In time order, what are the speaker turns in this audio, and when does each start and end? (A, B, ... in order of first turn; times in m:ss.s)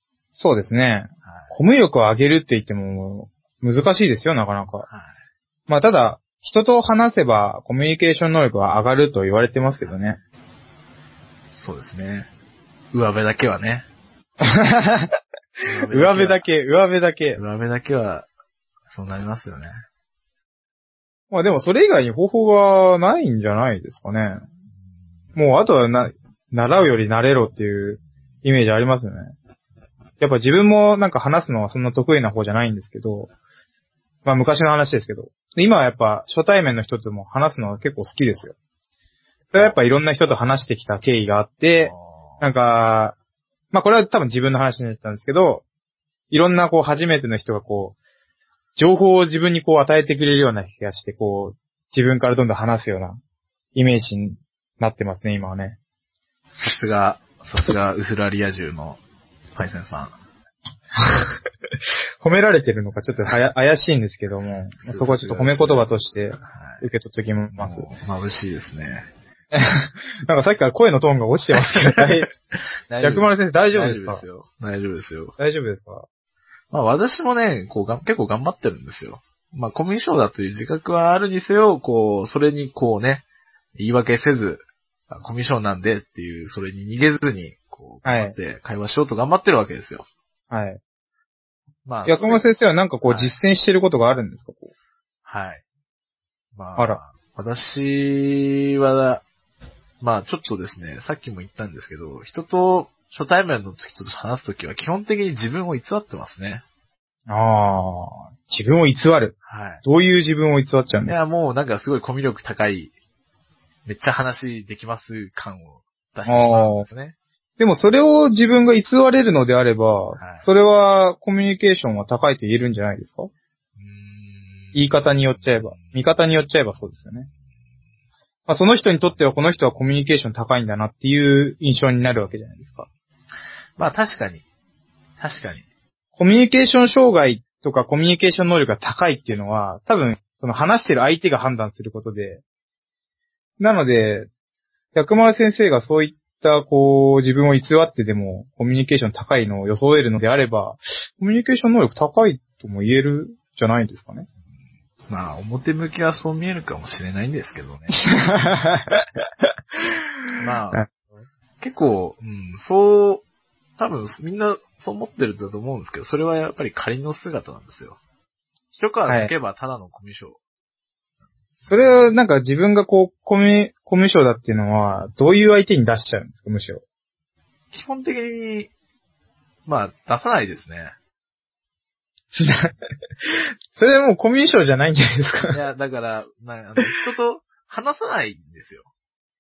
0:00.4-0:04.8 A
0:01.2-0:01.6 B
0:04.8-0:05.2 B
0:05.7-0:10.2 A
0:11.5-0:12.3 B
0:12.9-0:13.9 B
0:14.4-0:15.1 A
0:15.6-0:16.4 B
0:15.9-0:17.4 A
0:17.4-0:18.3 B
0:18.9-0:19.8 B
0:21.3-0:24.4 A
0:25.4-0:29.3 A
0:30.2-0:33.3 A
0:34.2-0:38.5 A
0:39.5-0:43.2 A
0:39.5-0:39.8 B
0:41.8-0:42.4 B
0:43.7-0:45.6 A
0:46.3-0:48.0 A
0:48.8-0:53.2 A
0:53.7-0:55.8 A
0:56.5-0:59.0 B
0:59.5-1:00.2 B
1:01.0-1:01.2 A
1:02.2-1:07.9 A
1:04.8-1:06.9 B
1:07.5-1:09.1 B
1:09.5-1:12.3 A
1:11.7-1:15.3 B
1:13.0-1:14.2 A
1:15.4-1:16.0 A
1:16.7-1:23.2 B
1:23.8-1:30.1 B
1:28.0-1:28.3 A
1:30.5-1:30.8 A
1:31.8-1:32.4 B
1:32.0-1:34.7 A
1:33.0-1:33.4 B
1:35.2-1:35.6 B
1:36.5-1:39.2 B
1:40.0-1:46.6 B
1:47.3-1:51.2 A
1:49.4-1:49.8 B
1:51.1-1:52.9 B
1:53.8-1:57.2 B
1:56.3-1:56.9 A
1:57.6-2:03.3 A
2:00.2-2:00.5 B
2:03.8-2:06.0 B
2:04.7-2:07.3 A
2:08.5-2:12.9 A
2:13.8-2:14.4 B
2:15.2-2:15.7 B
2:16.2-2:22.4 A
2:23.6-2:24.3 A
2:24.9-2:34.3 A
2:35.1-2:38.0 B
2:38.0-2:39.4 A
2:40.4-2:40.8 B
2:41.6-2:43.2 B
2:43.8-2:48.0 B
2:48.7-2:50.4 B
2:51.5-2:52.1 B
2:51.7-2:56.8 A
2:57.7-2:58.7 B
2:59.6-3:01.0 B
3:02.4-3:05.6 A
3:05.5-3:08.9 B